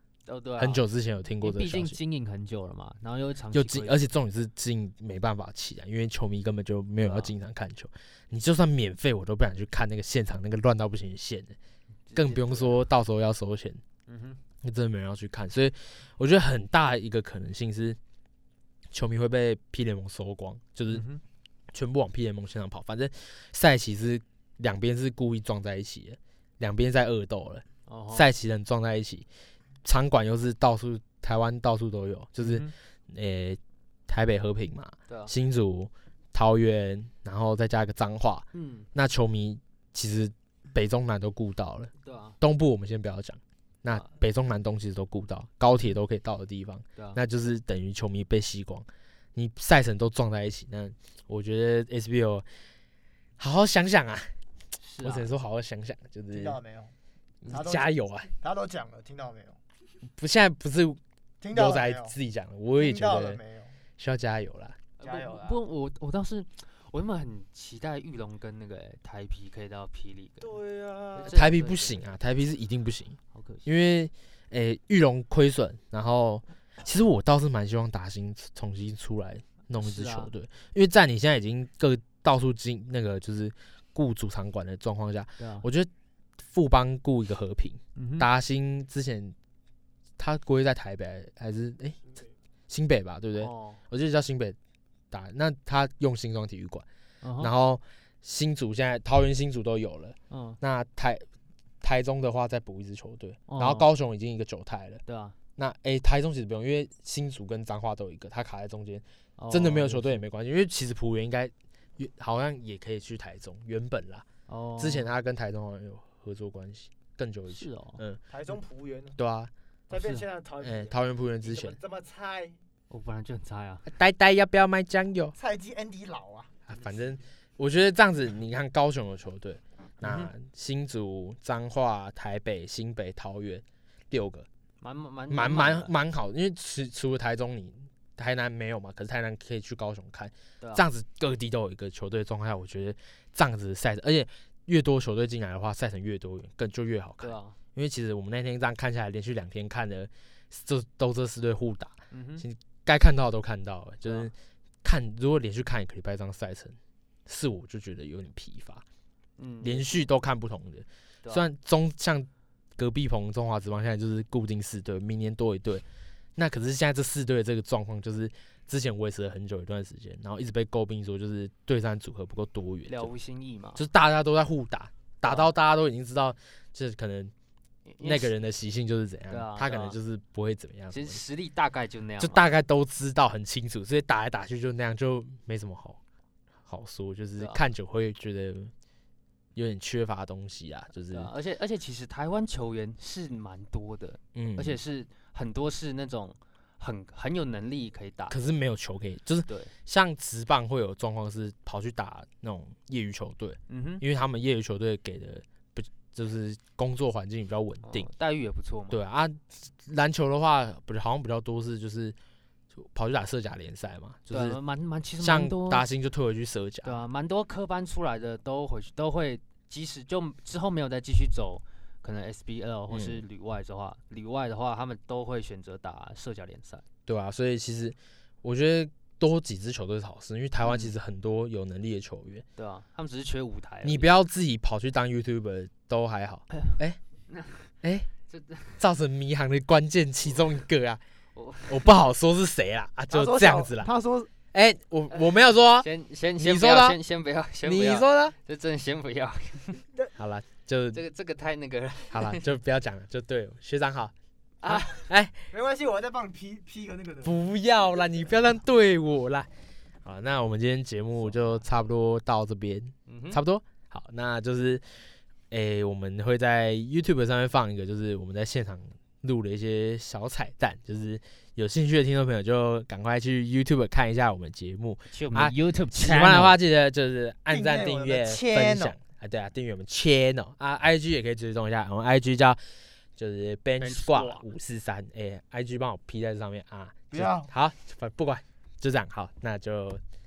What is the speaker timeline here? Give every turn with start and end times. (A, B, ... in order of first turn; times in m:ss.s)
0:00.3-0:00.8 A
0:00.6-0:02.0 B
0:01.4-0:04.1 A
0:03.5-0:11.6 B
0:07.0-0:07.3 A
0:12.1-0:12.8 A
0:12.2-0:13.8 B
0:14.1-0:14.4 A
0:14.6-0:18.0 B
0:18.9-0:21.1 B
0:20.9-0:21.2 A
0:21.7-0:29.3 B
0:27.9-0:28.3 A
0:29.8-0:52.5 B
0:32.4-0:32.7 A
0:38.5-0:38.9 A
0:42.0-0:42.4 A
0:53.4-0:54.3 B
0:54.8-0:55.3 A
0:55.0-0:56.6 B
0:56.3-0:56.9 C
0:57.4-0:58.3 B
0:57.5-0:59.6 C
1:00.2-1:01.0 B
1:01.4-1:02.2 C
1:01.5-1:03.4 B
1:02.8-1:03.7 C
1:04.0-1:04.8 B
1:05.0-1:10.6 A
1:05.0-1:05.6 C
1:10.4-1:11.4 C
1:11.2-1:12.0 A
1:11.3-1:29.4 B
1:13.3-1:13.7 A
1:19.8-1:20.3 A
1:25.4-1:25.7 A
1:28.0-1:28.3 A
1:30.2-1:32.0 B
1:32.7-1:34.6 B
1:33.4-1:33.8 A
1:35.1-1:36.8 B
1:37.2-1:37.5 A
1:37.4-1:41.2 B
1:40.3-1:40.6 A
1:41.8-1:45.0 B
1:43.5-1:43.9 A
1:45.1-1:45.4 A
1:45.6-1:54.2 B
1:49.4-1:50.2 A
1:54.5-1:55.1 A
1:54.8-1:58.2 B
1:57.5-1:58.0 A
1:58.3-1:59.2 C
1:59.2-1:59.5 B
1:59.9-2:02.6 C
1:59.9-2:00.2 A
2:00.6-2:01.8 B
2:02.9-2:03.8 A
2:03.9-2:05.3 B
2:05.4-2:06.6 C
2:06.7-2:14.5 B
2:10.0-2:10.3 A
2:14.8-2:15.9 A
2:15.3-2:38.8 B
2:20.6-2:20.9 A
2:27.2-2:27.6 A
2:32.1-2:32.4 A
2:34.0-2:34.3 A
2:39.4-2:40.0 A
2:39.6-2:45.8 B
2:46.4-2:53.1 B
2:52.9-2:53.8 A
2:53.8-2:57.3 B
2:55.2-2:55.5 A
2:57.9-2:58.3 A
2:58.0-3:01.2 B
2:59.3-3:00.0 A
3:00.9-3:02.4 A
3:02.2-3:06.0 B
3:06.7-3:08.7 B
3:09.6-3:11.3 B
3:11.1-3:18.4 A
3:14.4-3:14.8 B
3:18.3-3:28.1 B
3:19.5-3:19.7 A
3:23.7-3:24.0 A
3:27.8-3:29.0 A
3:28.9-3:32.2 B
3:32.7-3:34.6 B
3:34.3-3:35.8 A
3:35.2-3:37.0 B
3:36.8-3:46.8 A
3:42.9-3:43.2 B
3:47.1-3:52.4 B
3:50.6-3:50.9 A
3:52.6-3:54.1 A
3:53.8-3:57.0 B
3:57.3-3:57.7 A
3:57.8-3:58.1 B
3:58.3-3:58.8 A
3:58.8-4:01.0 B
4:01.4-4:01.9 A
4:01.7-4:03.9 B
4:03.1-4:04.3 C
4:04.5-4:07.0 B
4:05.8-4:09.8 A
4:07.6-4:08.4 B
4:10.2-4:11.0 B
4:10.9-4:12.4 A
4:12.1-4:15.3 B
4:14.6-4:14.9 A
4:14.9-4:17.4 C
4:17.2-4:19.5 B
4:20.0-4:24.8 B
4:21.2-4:21.6 A
4:23.1-4:23.4 A
4:25.5-4:42.6 B
4:35.1-4:36.6 A
4:37.5-4:39.0 C
4:43.2-4:50.0 B
4:43.8-4:44.5 A
4:47.1-4:47.5 C